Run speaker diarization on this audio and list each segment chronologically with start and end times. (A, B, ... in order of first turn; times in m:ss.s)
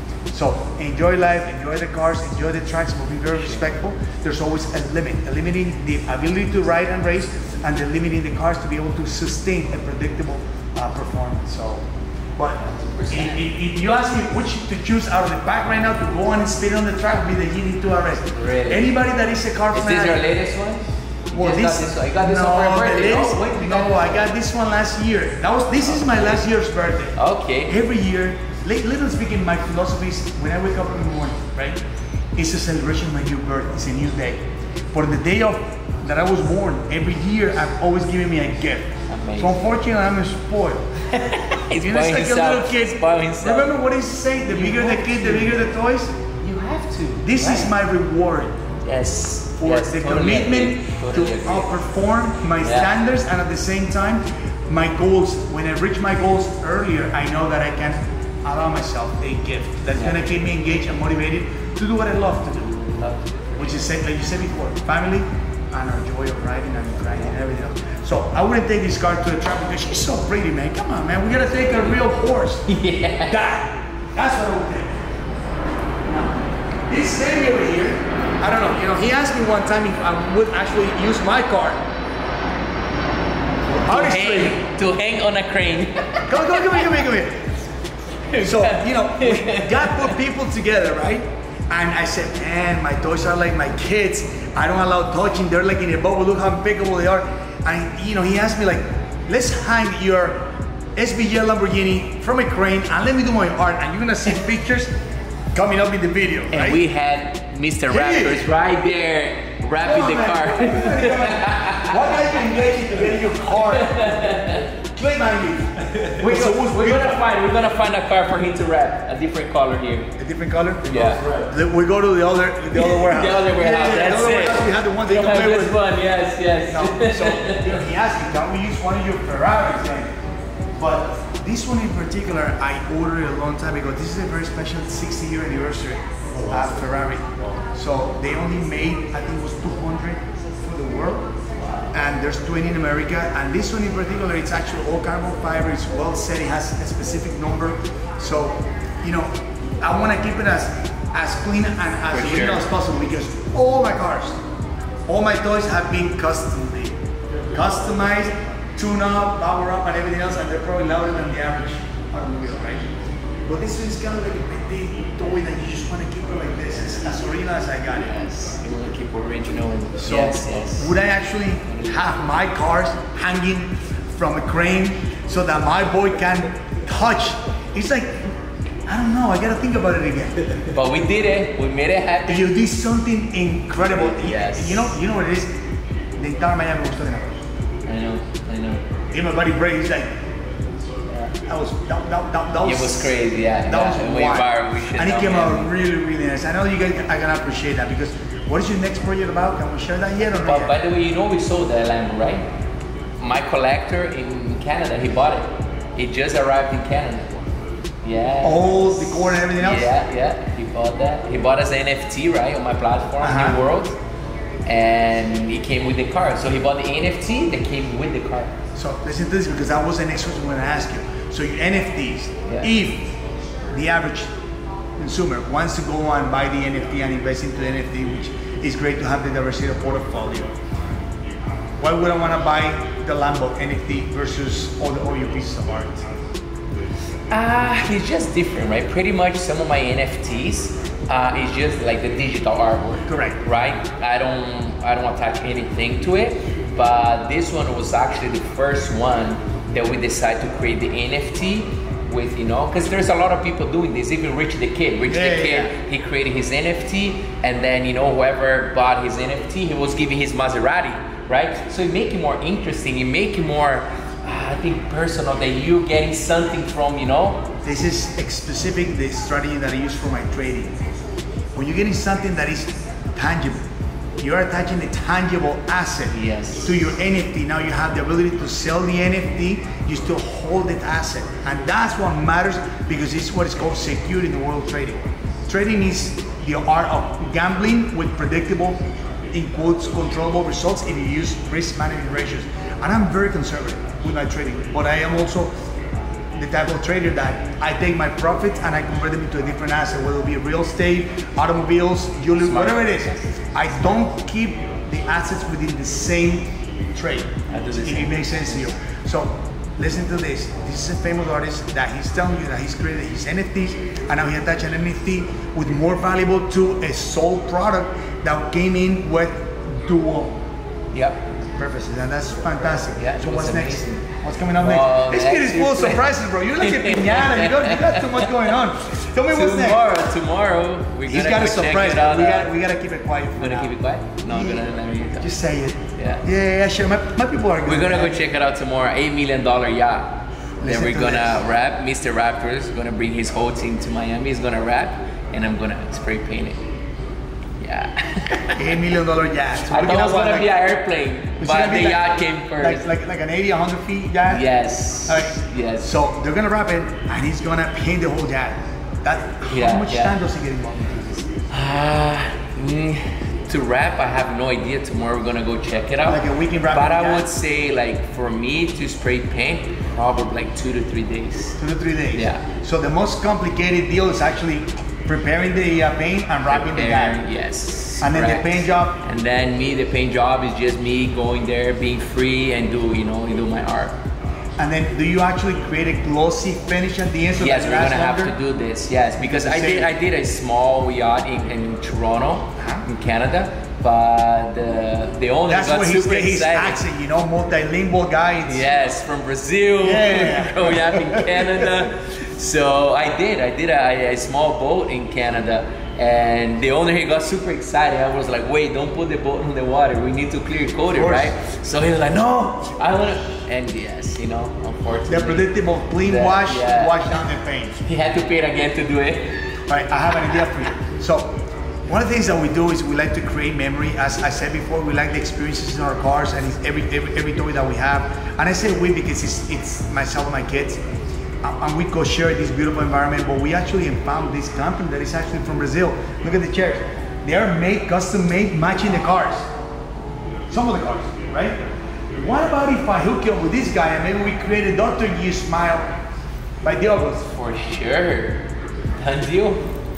0:00.3-0:11.8 A
0:03.4-0:03.7 B
0:12.4-0:20.2 A
0:12.6-0:13.4 B
0:18.4-0:18.9 B
0:19.7-0:24.3 B
0:21.3-0:31.8 A
0:25.8-0:26.4 B
0:27.2-0:27.7 B
0:32.4-0:34.4 A
0:34.9-0:40.8 A
0:39.1-0:39.8 B
0:41.1-0:43.8 B
0:41.7-0:46.2 A
0:44.4-0:45.7 B
0:46.4-0:47.8 B
0:47.2-0:48.6 A
0:48.8-0:51.7 B
0:49.6-1:02.7 A
0:52.6-0:52.9 B
1:00.0-1:00.2 B
1:02.6-1:03.8 B
1:03.6-1:12.7 A
1:12.7-1:13.4 B
1:13.2-1:14.9 A
1:16.0-1:21.8 A
1:23.6-1:24.6 A
1:23.9-1:27.0 B
1:26.3-1:27.5 A
1:28.3-1:30.1 B
1:28.4-1:44.9 A
1:45.5-1:46.8 A
1:46.5-1:52.1 B
1:47.9-1:48.5 A
1:49.8-1:57.2 A
1:53.5-1:54.6 B
1:56.0-2:00.1 B
2:00.2-2:05.8 A
2:00.8-2:01.5 B
2:02.7-2:07.8 B
2:06.7-2:10.1 A
2:10.8-2:21.3 A
2:21.9-2:29.3 A
2:29.8-2:34.4 A
2:32.1-2:32.7 B
2:35.1-2:37.0 A
2:37.5-2:42.9 A
2:43.4-2:48.1 A
2:48.0-2:51.0 B
2:50.0-2:58.3 A
2:51.7-2:52.0 B
2:58.9-3:00.7 A
3:00.7-3:02.5 B
3:02.3-3:05.5 A
3:03.9-3:04.9 B
3:06.2-3:07.4 A
3:07.8-3:08.8 B
3:09.1-3:10.1 A
3:11.4-3:20.7 A
3:12.6-3:15.7 B
3:20.4-3:22.4 B
3:23.2-3:27.5 B
3:28.0-3:34.0 B
3:28.4-3:29.9 A
3:33.2-3:33.6 A
3:34.6-3:38.5 B
3:38.7-3:43.1 A
3:43.7-3:44.3 A
3:45.0-3:50.5 A
3:51.8-3:56.1 A
3:57.3-4:27.4 B
4:03.0-4:03.4 A
4:15.1-4:15.7 A
4:27.6-4:30.8 A
4:31.6-4:33.6 A
4:34.2-4:48.8 A
4:36.1-4:36.8 B
4:49.3-4:55.5 A
4:56.4-5:20.4 A
5:02.4-5:04.0 B
5:07.5-5:08.7 B
5:20.9-5:21.2 B
5:21.6-5:29.9 A
5:23.0-5:24.0 B
5:24.6-5:26.0 B
5:26.6-5:28.6 B
5:29.3-5:32.5 B
5:31.0-5:33.7 A
5:33.4-5:35.3 B
5:34.2-5:38.2 A
5:36.0-5:36.2 B
5:37.6-5:46.6 B
5:40.6-5:41.4 A
5:47.6-5:48.7 B
5:48.5-5:50.5 A
5:49.7-5:52.8 B
5:51.4-5:54.4 A
5:54.3-5:55.9 B
5:55.0-6:01.3 A
5:59.5-6:00.2 B
6:01.5-6:11.6 B
6:06.0-6:07.3 A
6:11.6-6:17.2 A
6:12.1-6:12.4 B
6:16.5-6:23.9 B
6:18.0-6:19.0 A
6:24.6-6:28.3 A
6:27.4-6:36.8 B
6:29.2-6:29.9 A
6:32.6-6:32.8 A
6:35.5-6:38.7 A
6:38.4-6:57.2 B
6:39.8-6:41.7 A
6:50.9-6:51.3 A
6:55.1-6:57.8 A
6:57.8-6:59.4 B
6:59.7-7:01.4 A
7:01.9-7:10.8 A
7:11.4-7:19.5 A
7:20.5-7:21.6 A
7:22.1-7:25.9 A
7:26.6-7:27.2 A
7:26.9-7:28.4 B
7:29.0-7:29.6 B